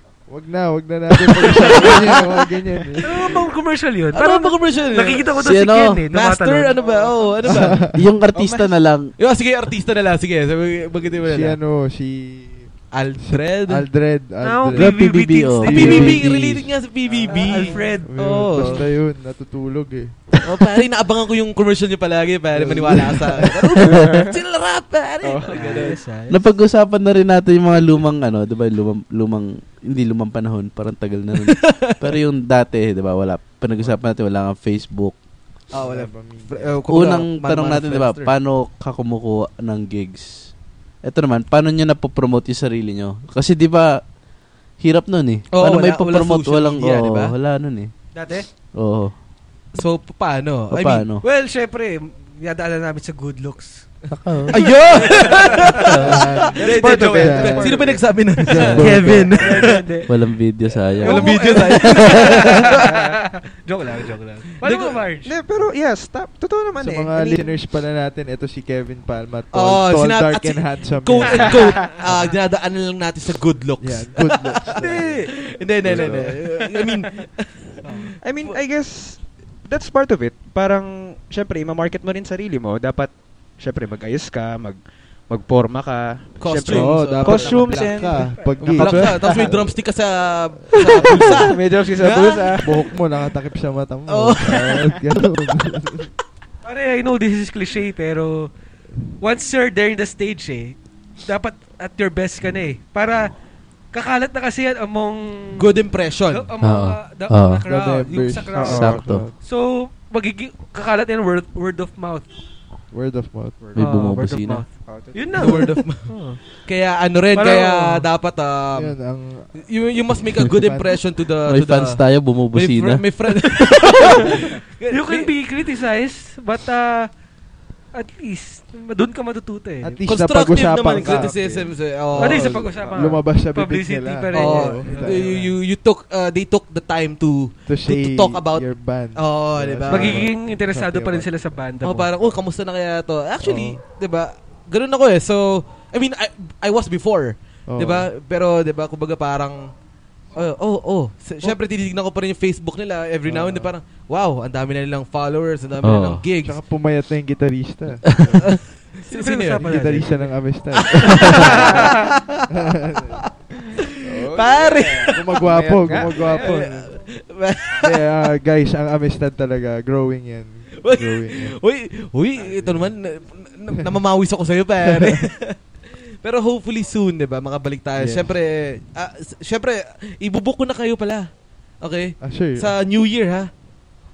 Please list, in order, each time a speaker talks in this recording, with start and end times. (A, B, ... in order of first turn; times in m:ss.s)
0:00.2-0:03.3 A
0:03.0-0:06.8 B
0:04.1-0:05.4 C
0:05.4-0:06.0 D
0:06.1-0:07.8 C
0:06.8-0:07.4 E
0:07.4-0:08.1 A
0:07.9-0:09.1 D
0:08.3-0:08.8 E
0:09.2-0:11.6 C
0:11.2-0:15.1 A
0:12.9-0:13.9 C
0:14.4-0:16.2 B
0:14.7-0:16.7 D
0:15.6-0:16.7 A
0:15.7-0:18.9 C
0:17.0-0:17.6 E
0:17.3-0:18.8 B
0:17.6-0:20.2 A
0:20.4-0:26.0 C
0:22.5-0:24.2 A
0:25.3-0:25.8 A
0:25.5-0:26.4 B
0:26.3-0:35.2 D
0:31.4-0:32.1 C
0:35.7-0:38.3 C
0:35.7-0:36.8 A
0:36.9-0:40.5 D
0:41.0-0:44.0 D
0:44.8-0:47.9 D
0:45.5-0:47.3 C
0:48.1-0:48.5 B
0:48.8-0:49.1 D
0:49.7-0:51.1 C
0:50.7-0:51.2 D
0:51.2-0:53.9 B
0:54.1-0:54.6 D
0:54.5-0:59.9 C
0:54.5-0:55.8 B
0:55.9-0:59.7 A
0:56.5-0:58.3 E
0:58.6-1:00.1 B
1:00.1-1:01.7 D
1:01.0-1:05.4 B
1:01.0-1:02.9 C
1:04.6-1:05.0 C
1:05.2-1:07.5 E
1:06.8-1:12.3 A
1:09.5-1:18.6 C
1:11.4-1:11.9 E
1:11.4-1:11.9 B
1:13.8-1:15.3 A
1:14.8-1:15.4 B
1:15.8-1:16.4 A
1:15.9-1:16.3 E
1:17.8-1:18.2 B
1:18.2-1:29.1 E
1:26.4-1:32.9 C
1:26.6-1:29.8 A
1:30.8-1:31.5 A
1:30.9-1:32.9 E
1:32.6-1:36.1 A
1:34.1-1:35.0 C
1:36.6-1:38.5 B
1:39.2-1:43.3 B
1:43.9-1:45.7 B
1:45.6-1:46.5 C
1:46.3-1:52.3 B
1:46.6-1:47.6 D
1:47.7-1:49.4 A
1:48.6-1:49.0 E
1:48.6-1:49.2 D
1:52.9-1:53.7 A
1:53.6-1:54.1 E
1:53.8-1:54.6 D
1:53.8-1:56.4 B
1:54.8-1:55.7 E
1:55.4-1:59.0 C
1:57.3-1:58.1 B
1:58.8-1:59.5 A
1:59.6-2:05.3 C
2:00.6-2:01.0 A
2:01.5-2:03.1 D
2:03.6-2:04.3 B
2:04.9-2:07.1 B
2:07.9-2:10.0 B
2:09.8-2:15.5 A
2:10.0-2:13.2 C
2:12.2-2:15.5 B
2:14.3-2:20.4 C
2:17.7-2:21.8 A
2:19.9-2:22.1 B
2:21.8-2:29.7 C
2:23.4-2:23.8 A
2:27.7-2:28.1 A
2:30.4-2:36.6 C
2:33.3-2:33.7 A
2:35.8-2:36.2 D
2:36.4-2:38.6 A
2:38.5-2:40.0 C
2:39.0-2:40.3 B
2:39.6-2:41.9 A
2:40.7-2:43.2 C
2:41.1-2:42.1 B
2:42.5-2:43.2 A
2:43.8-2:48.1 C
2:44.0-2:46.6 E
2:45.1-2:46.9 A
2:47.8-2:51.6 A
2:50.8-2:55.6 C
2:54.8-2:55.2 A
2:56.2-3:03.5 C
2:58.0-2:58.3 D
3:02.2-3:02.8 A